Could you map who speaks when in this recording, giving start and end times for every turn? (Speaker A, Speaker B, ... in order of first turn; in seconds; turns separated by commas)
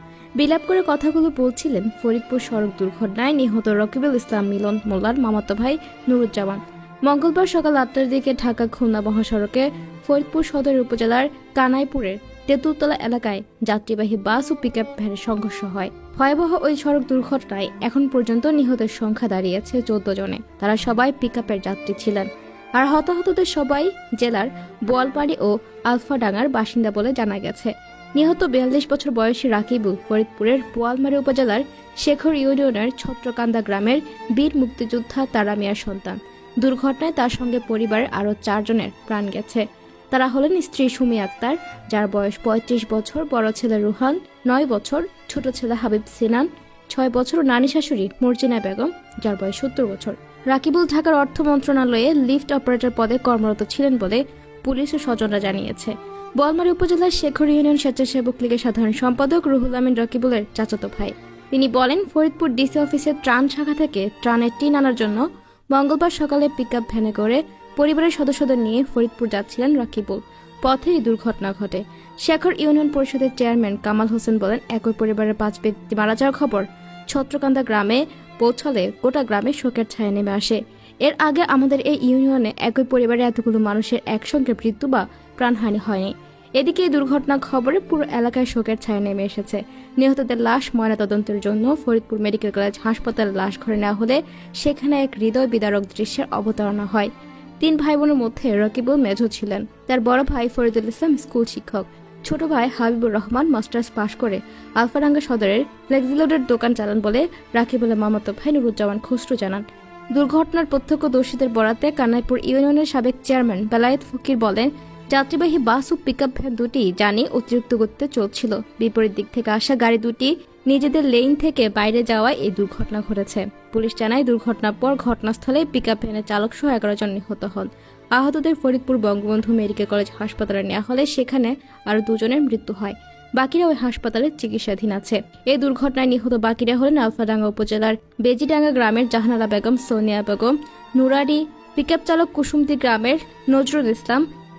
Speaker A: 0.4-144.2